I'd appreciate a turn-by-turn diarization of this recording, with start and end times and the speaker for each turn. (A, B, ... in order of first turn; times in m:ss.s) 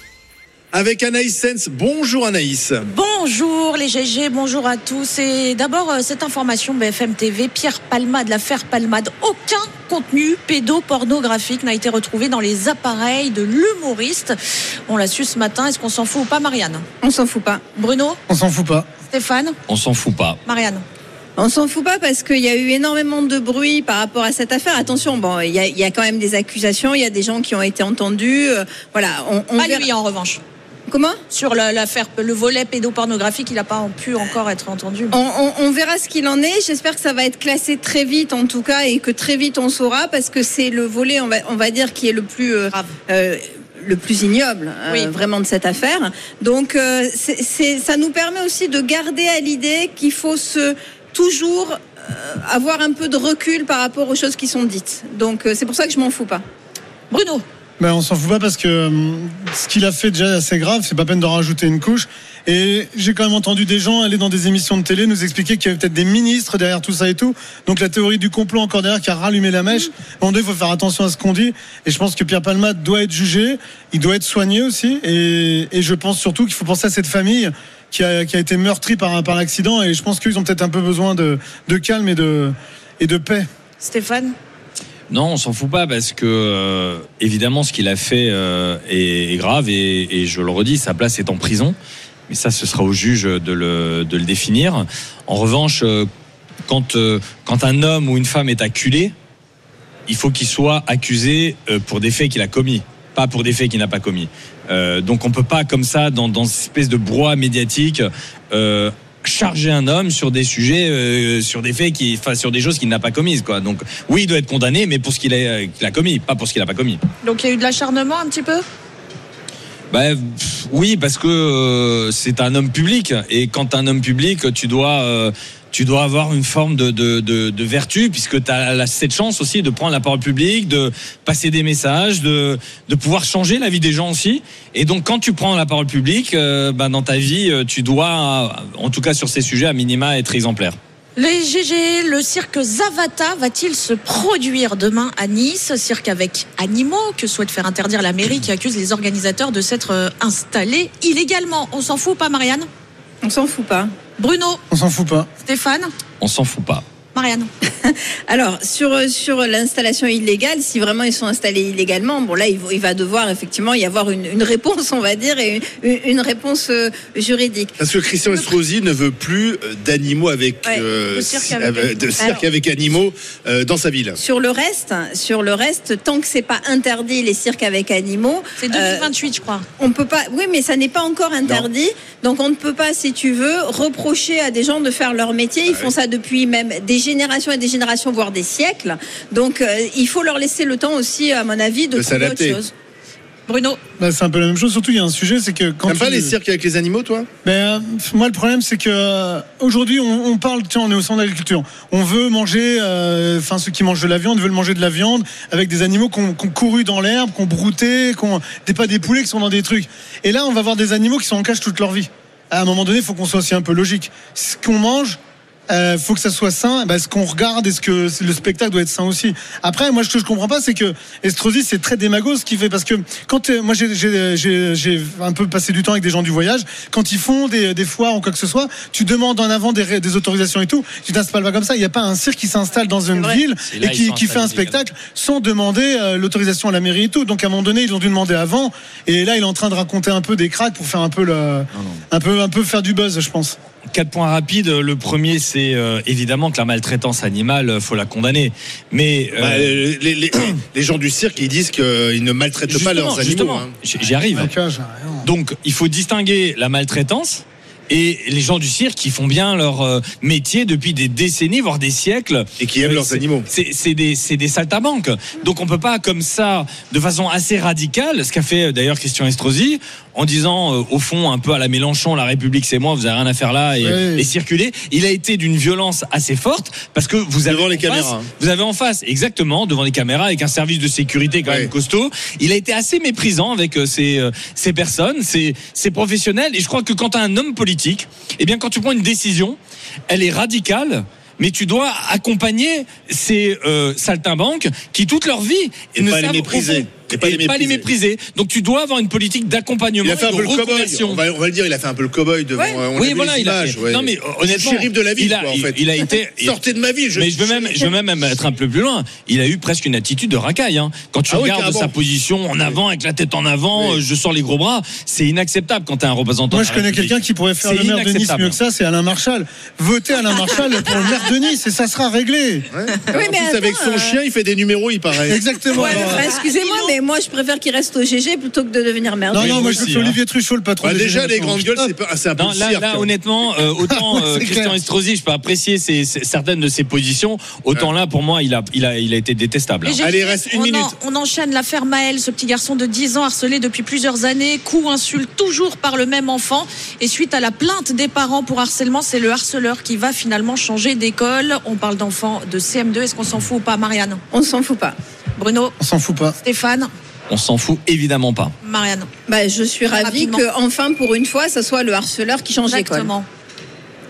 0:00.7-0:02.8 A
0:02.8-0:14.3 B
0:14.9-0:16.8 B
0:17.0-0:17.6 C
0:17.7-0:18.2 B
0:18.3-0:18.9 D
0:19.1-0:19.6 B
0:19.7-0:20.4 E
0:20.4-0:20.8 B
0:21.4-0:29.9 C
0:29.6-0:30.4 B
0:30.9-0:31.2 C
0:31.3-0:35.1 B
0:35.1-0:56.4 C
0:57.1-0:57.4 B
0:57.8-1:23.5 D
1:23.8-1:24.3 B
1:25.1-1:31.8 E
1:32.3-1:36.1 E
1:36.7-1:39.1 E
1:40.1-1:57.0 E
1:57.2-1:58.6 B
1:59.9-2:20.8 E
2:21.2-2:32.7 B
2:33.2-2:33.9 C
2:34.2-2:34.6 B
2:34.7-2:35.3 D
2:35.4-2:35.9 B
2:36.2-2:36.8 E
2:37.1-2:37.5 B
2:37.8-2:47.8 C
2:47.8-2:54.2 A
2:51.1-2:52.3 B
2:52.2-2:52.4 C
2:54.2-2:59.1 C
2:58.6-2:59.6 B
2:59.8-3:12.7 C
3:11.9-3:12.6 A
3:13.5-3:13.8 B
3:14.0-3:16.3 D
3:15.8-3:17.3 A
3:17.4-3:35.2 D
3:35.7-4:03.6 D
3:53.6-3:54.8 E
4:01.7-4:02.0 E
4:03.9-4:09.7 E
4:09.4-4:13.7 A
4:12.7-4:14.5 E
4:14.3-4:15.3 D
4:15.2-4:49.6 E
4:22.6-4:23.5 A
4:33.8-4:34.3 D
4:37.4-4:38.3 A
4:41.4-4:41.7 A
4:50.1-5:01.2 E
4:55.9-4:57.9 A
5:00.0-5:07.9 A
5:02.6-5:02.8 C
5:02.9-5:06.6 E
5:07.1-5:18.6 E
5:11.3-5:11.9 A
5:16.5-5:22.7 D
5:22.7-5:26.1 A
5:23.1-5:24.1 C
5:25.3-5:26.3 D
5:25.8-5:26.9 B
5:25.9-5:29.8 C
5:29.3-5:31.9 D
5:29.3-5:30.2 E
5:30.8-5:33.1 A
5:32.3-5:40.0 E
5:33.8-5:34.7 D
5:39.8-5:54.2 B
5:40.0-5:40.9 A
5:54.3-5:55.0 C
5:55.4-5:55.7 B
5:55.8-5:56.4 D
5:56.4-5:56.9 B
5:57.3-5:58.5 E
5:58.6-5:59.1 B
5:59.3-6:03.1 C
5:59.9-6:00.4 B
6:02.7-6:03.3 B